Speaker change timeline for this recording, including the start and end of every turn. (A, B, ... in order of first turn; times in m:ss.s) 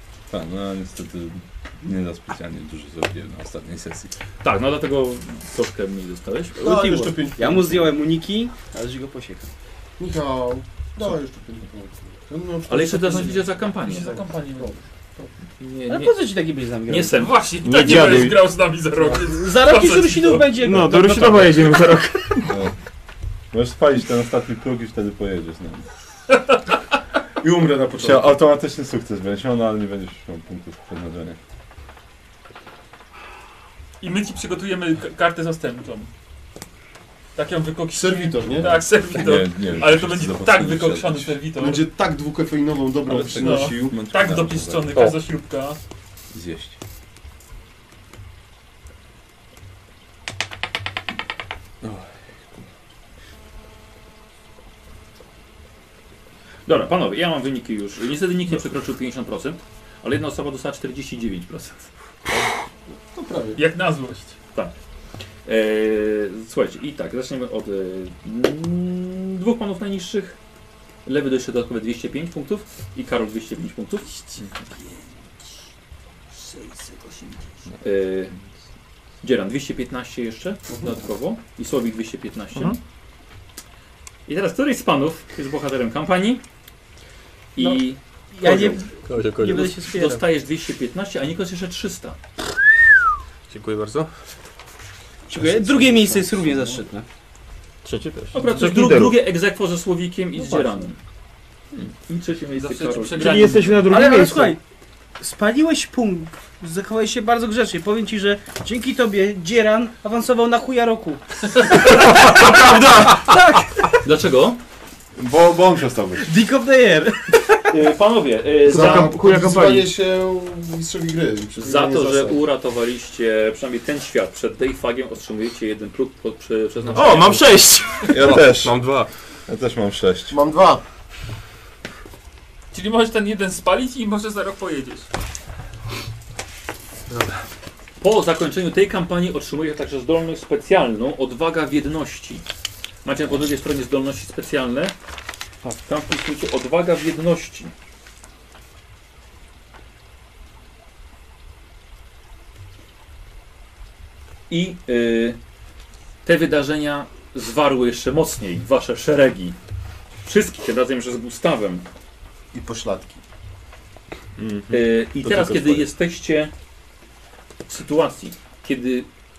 0:00.3-0:04.1 A
0:04.4-0:06.7 B
0:06.6-0:08.0 C
0:06.6-0:09.5 D
0:10.0-0:15.3 C
0:12.7-0:14.1 B
0:13.8-0:14.7 E
0:15.6-0:16.2 B
0:15.9-0:17.2 D
0:16.9-0:17.4 B
0:17.2-0:20.7 E
0:17.6-0:18.4 F
0:19.2-0:22.5 D
0:20.6-0:22.5 F
0:22.5-0:22.7 A
0:23.5-0:25.9 A
0:26.3-0:26.6 E
0:27.4-0:28.4 C
0:28.0-0:31.4 A
0:34.0-0:36.1 E
0:37.4-0:41.9 E
0:37.9-0:38.9 C
0:38.6-0:41.4 A
0:41.6-0:44.0 C
0:43.1-0:45.1 A
0:43.3-0:45.8 E
0:46.3-0:46.8 A
0:51.8-0:52.6 A
0:56.7-1:01.9 B
1:03.1-1:03.6 C
1:03.6-1:04.4 E
1:05.5-1:10.4 B
1:11.1-1:14.3 B
1:16.4-1:18.4 B
1:19.2-1:22.8 B
1:24.3-1:26.4 B
1:27.6-1:28.9 B
1:28.3-1:30.1 D
1:29.1-1:30.2 G
1:29.4-1:32.2 B
1:33.5-1:34.1 G
1:35.3-1:37.1 D
1:35.5-1:36.8 C
1:37.8-1:39.2 F
1:38.3-1:41.0 B
1:42.1-1:43.7 B
1:42.6-1:44.0 E
1:43.2-1:44.6 F
1:43.9-1:44.6 D
1:45.2-1:52.8 D
1:52.3-1:53.2 F
1:54.0-1:54.6 B
1:55.2-1:56.3 A
1:56.2-1:57.7 D
1:57.7-1:59.3 B
1:58.7-2:02.4 C
1:58.7-1:59.9 F
2:01.6-2:07.4 B
2:06.9-2:08.1 F
2:08.1-2:08.8 A
2:08.1-2:09.1 G
2:09.5-2:10.4 A
2:10.3-2:10.8 C
2:12.7-2:15.1 E
2:17.1-2:17.4 G
2:18.0-2:22.4 B
2:23.0-2:25.0 B
2:25.6-2:27.7 B
2:34.5-2:35.4 B
2:36.2-2:39.6 B
2:40.2-2:41.9 B
2:42.5-2:43.2 C
2:44.4-2:45.9 A
2:44.7-2:46.5 B
2:47.7-2:49.1 B